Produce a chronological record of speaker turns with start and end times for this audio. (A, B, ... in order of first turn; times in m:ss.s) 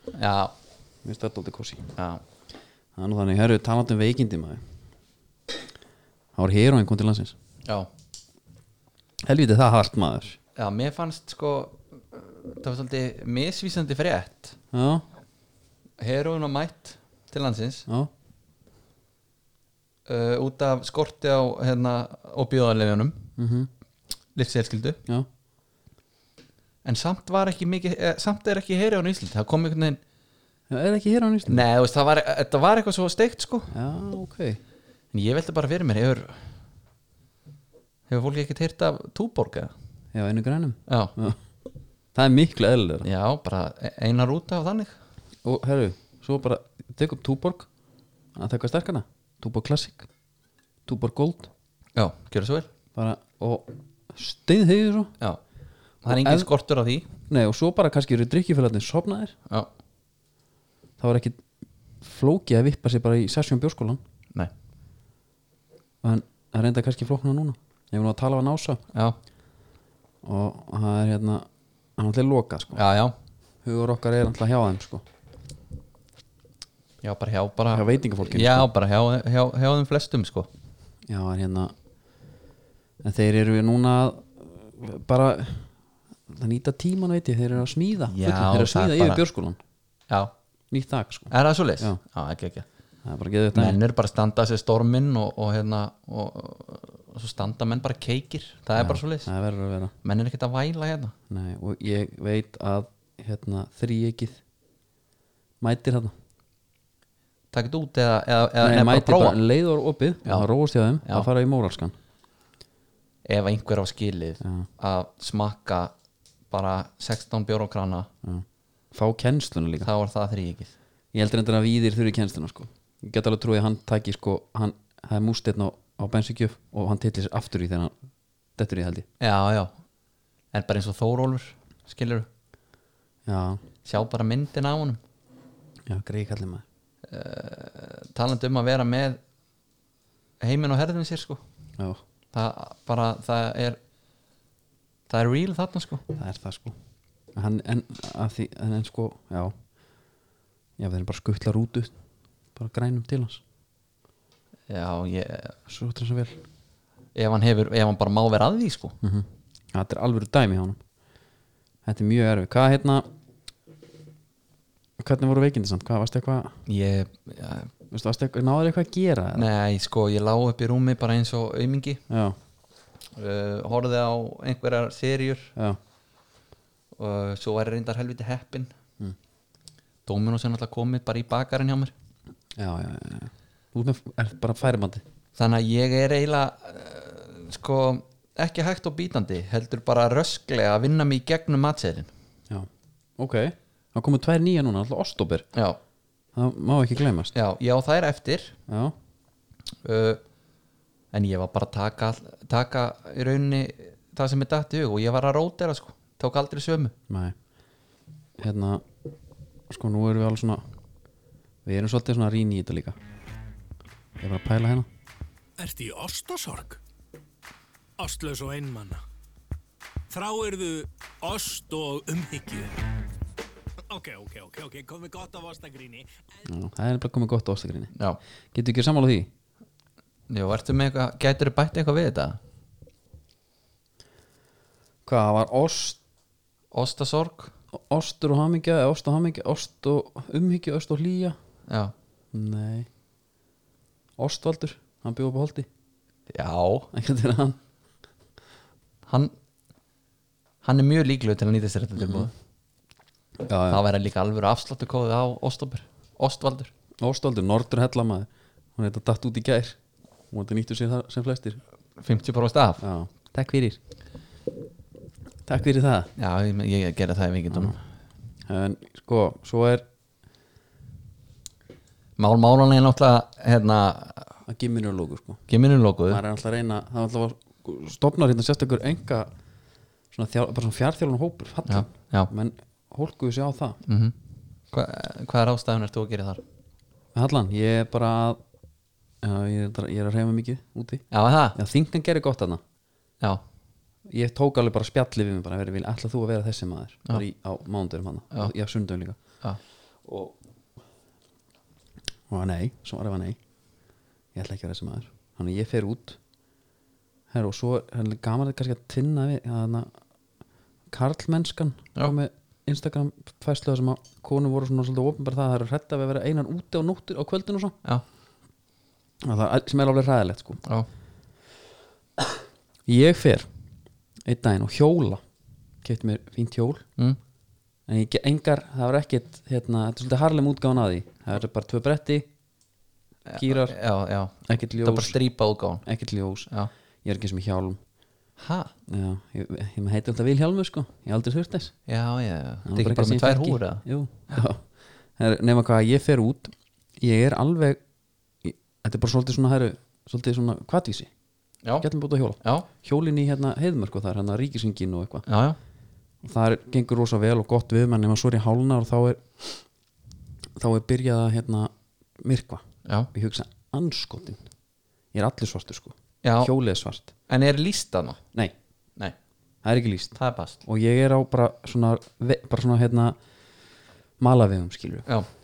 0:00.1-0:00.5 A
0:01.0-0:01.9 B
0:02.0-0:02.2 A
0:03.0-0:04.6 B
0:06.4-0:07.3 B
0:09.3-0:10.4 B
0:10.6-0:14.5 A
0:14.7-0:15.0 B
0:16.0-0:17.8 A
0:20.1-0:23.2 A
0:23.4-0:23.7 B
0:24.3-0:25.0 A
0:26.8-0:30.0 A
0:30.7-0:31.6 B
0:31.4-0:33.7 A
0:33.7-0:34.6 B
0:35.1-0:36.4 A
0:38.1-0:39.7 A
0:40.1-0:41.4 B
0:40.9-0:41.1 A
0:42.1-0:43.1 B
0:43.0-0:45.0 A
0:45.4-0:47.7 B
0:48.3-0:50.1 B
0:50.9-0:51.5 B
0:52.0-0:52.7 A
0:52.9-0:55.1 B
0:56.0-0:57.1 A
0:56.1-0:56.5 B
0:57.3-0:59.3 B
1:01.0-1:01.4 B
1:02.0-1:04.0 B
1:06.0-1:08.8 B
1:10.2-1:12.8 B
1:12.7-1:13.1 A
1:13.6-1:15.0 B
1:17.0-1:20.5 A
1:17.7-1:18.7 B
1:21.1-1:21.7 B
1:23.0-1:25.7 B
1:26.3-1:29.6 B
1:28.1-1:29.2 A
1:30.7-1:32.0 B
1:31.3-1:32.6 A
1:33.0-1:33.8 B
1:33.5-1:39.3 A
1:38.8-1:39.9 B
1:40.0-1:41.1 A
1:41.3-1:44.4 B
1:45.6-1:46.1 B
1:47.5-1:49.4 A
1:48.6-1:51.9 B
1:53.2-1:55.9 A
1:54.4-1:54.7 B
1:56.5-1:58.1 A
1:58.2-1:59.9 B
1:59.8-2:00.7 A
2:01.1-2:07.9 B
2:08.6-2:09.0 B
2:09.2-2:09.7 A
2:10.5-2:12.3 A
2:13.2-2:13.6 B
2:13.8-2:15.0 A
2:15.9-2:16.6 B
2:17.1-2:19.2 A
2:20.4-2:21.4 A
2:22.3-2:23.8 A
2:25.1-2:26.0 A
2:26.1-2:26.8 B
2:27.3-2:29.5 B
2:30.8-2:31.9 B
2:32.5-2:33.4 B
2:34.7-2:35.5 A
2:35.7-2:36.4 B
2:37.1-2:38.9 A
2:39.0-2:40.8 B
2:41.8-2:43.0 B
2:45.0-2:46.6 B
2:46.7-2:47.7 A
2:47.9-2:49.4 B
2:49.3-2:52.0 A
2:52.1-2:52.4 B
2:53.2-2:55.5 A
2:57.0-2:58.7 A
3:00.0-3:01.9 A
3:02.6-3:05.0 B
3:05.4-3:12.1 A
3:12.5-3:15.4 B
3:16.3-3:17.3 B
3:17.3-3:18.6 A
3:18.7-3:18.9 B
3:19.8-3:20.2 A
3:21.1-3:26.9 A
3:27.1-3:27.3 B
3:28.4-3:28.8 B
3:29.7-3:30.6 B
3:31.6-3:33.0 B
3:34.2-3:34.9 B
3:35.6-3:36.8 C
3:38.0-3:39.0 C
3:40.1-3:42.7 C
3:43.9-3:46.4 C
3:46.4-3:47.9 B
3:48.5-3:49.3 B
3:50.3-3:52.4 A
3:55.0-3:56.0 B
3:56.7-3:57.5 A
3:57.7-4:01.4 B
4:01.7-4:01.9 A
4:02.3-4:02.9 B
4:04.2-4:05.7 B
4:06.3-4:06.9 A
4:06.9-4:07.6 B
4:09.1-4:09.3 A
4:10.6-4:12.3 A
4:12.0-4:12.3 B
4:13.4-4:13.8 B
4:13.7-4:16.7 A
4:17.0-4:19.8 B
4:20.3-4:21.6 B
4:22.0-4:22.8 A
4:22.8-4:23.8 B
4:25.4-4:26.1 B
4:26.2-4:27.8 A
4:28.4-4:29.8 B
4:32.2-4:34.3 A
4:34.4-4:35.4 B
4:35.5-4:36.2 A
4:36.1-4:39.3 B
4:40.1-4:43.8 B
4:41.7-4:42.3 A
4:43.8-4:44.1 A
4:44.7-4:46.4 A
4:47.1-4:48.4 B
4:49.2-4:52.6 B
4:51.1-4:51.6 A
4:54.1-4:59.2 B
5:00.0-5:00.3 B
5:02.3-5:03.4 B
5:04.3-5:06.2 B
5:07.3-5:09.9 B
5:10.9-5:17.8 B
5:19.2-5:20.6 B
5:22.8-5:23.5 B
5:24.2-5:25.2 B
5:25.8-5:26.8 B
5:27.9-5:32.3 B
5:33.3-5:35.8 A
5:33.4-5:33.8 B
5:34.4-5:35.2 B
5:35.8-5:36.5 B
5:37.0-5:37.8 B
5:38.4-5:38.7 A
5:38.9-5:41.7 B
5:41.9-5:44.4 A
5:42.6-5:44.6 B
5:45.2-5:47.8 B
5:48.4-5:51.1 B
5:51.8-5:55.2 B
5:52.4-5:52.7 A
5:55.2-5:55.6 A
5:56.2-5:59.6 B
6:00.6-6:04.4 B
6:02.8-6:03.1 A
6:05.1-6:07.1 B
6:06.2-6:06.5 A
6:07.3-6:08.2 A
6:09.6-6:13.2 B
6:10.2-6:10.6 A
6:14.2-6:15.1 B